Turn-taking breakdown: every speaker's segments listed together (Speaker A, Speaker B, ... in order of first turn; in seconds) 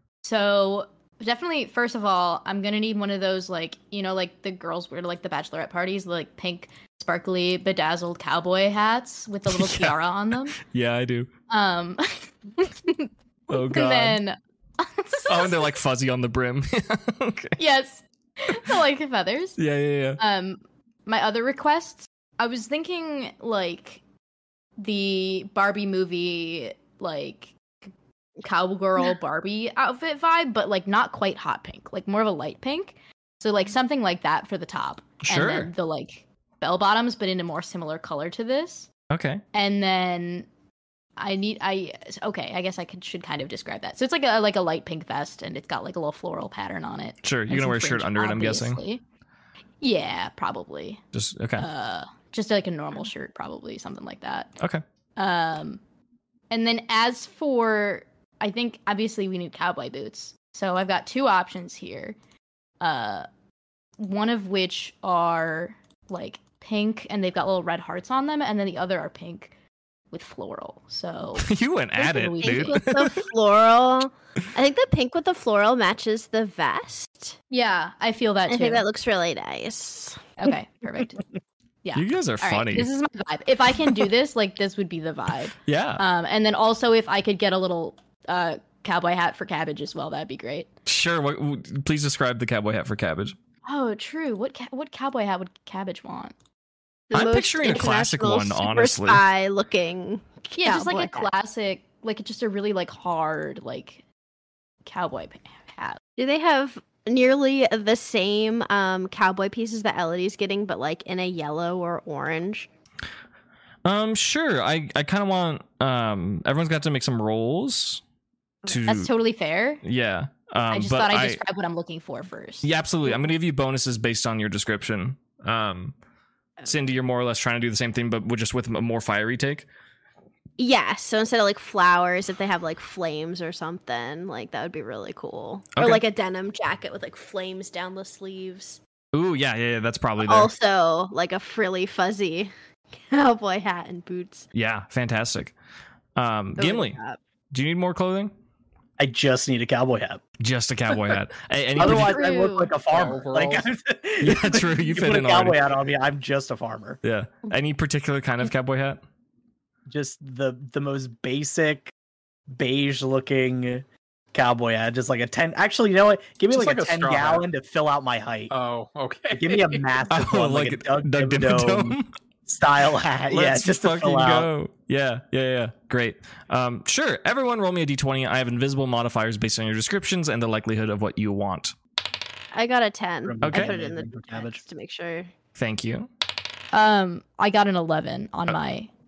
Speaker A: 0.2-10.6, 11.5-15.7, 17.6-19.6, 20.2-24.0, 24.8-27.9, 28.4-38.9, 39.5-40.5, 41.2-49.0, 49.8-51.0, 51.6-54.5, 55.2-55.8, 56.5-62.2, 62.8-63.3, 64.0-69.5, 70.1-72.8, 77.5-78.9, 80.4-81.2, 81.8-90.7, 93.7-96.3, 100.5-104.0, 104.8-106.0, 118.7-119.8, 120.7-122.7, 151.8-152.7, 186.7-188.9
Speaker B: 9.5-10.0, 10.6-11.3, 13.5-14.2, 15.3-17.6, 19.6-20.2, 35.2-35.7, 39.1-39.4, 47.2-48.8, 51.1-51.7, 71.4-73.2, 81.9-82.9, 85.7-86.0, 90.9-93.3, 97.1-99.2, 113.8-118.0, 118.7-119.1, 119.8-121.4, 122.6-126.0, 126.7-129.7, 135.8-136.0, 139.1-140.5, 144.5-145.6, 146.2-147.0, 147.5-148.3, 150.4-152.2, 154.2-155.6, 157.0-159.0, 170.1-172.1, 173.3-181.8, 183.4-183.7, 185.6-186.1
Speaker C: 72.4-77.4, 78.5-80.3, 97.1-101.3, 106.2-112.7, 130.6-138.8, 140.2-142.5, 143.0-144.5, 146.6-147.2, 182.5-185.3
Speaker D: 149.0-150.2, 151.8-157.0, 159.9-161.9, 162.5-168.5, 169.3-174.5, 183.2-184.6
Speaker E: 152.8-153.7, 166.5-167.4, 168.5-169.8